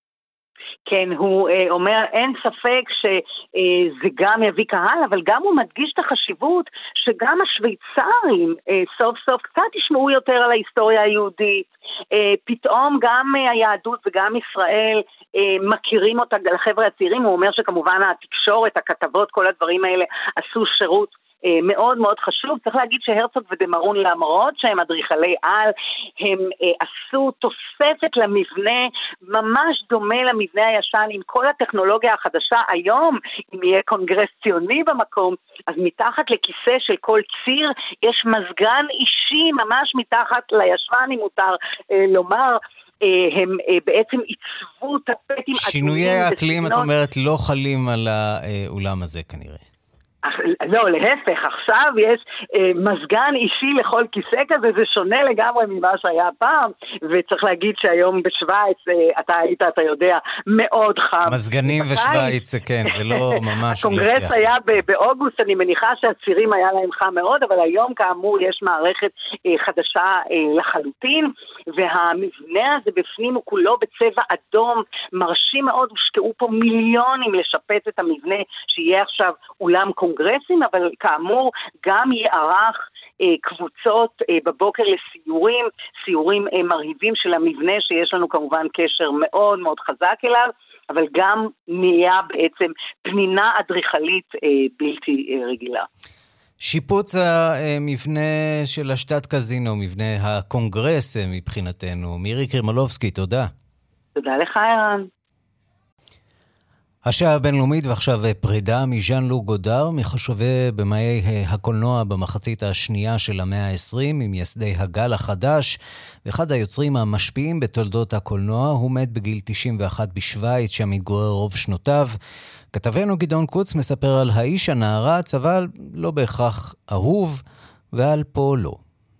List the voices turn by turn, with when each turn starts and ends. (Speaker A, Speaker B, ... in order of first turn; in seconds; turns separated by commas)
Speaker A: 0.9-46.9, Speaker B: 45.5-49.6, Speaker A: 50.2-62.4, Speaker B: 61.2-64.5, Speaker A: 63.7-95.9, Speaker B: 96.6-103.5, Speaker A: 104.2-105.1, Speaker B: 107.0-115.7, Speaker B: 116.2-122.1, Speaker B: 122.7-127.4, Speaker B: 127.9-128.8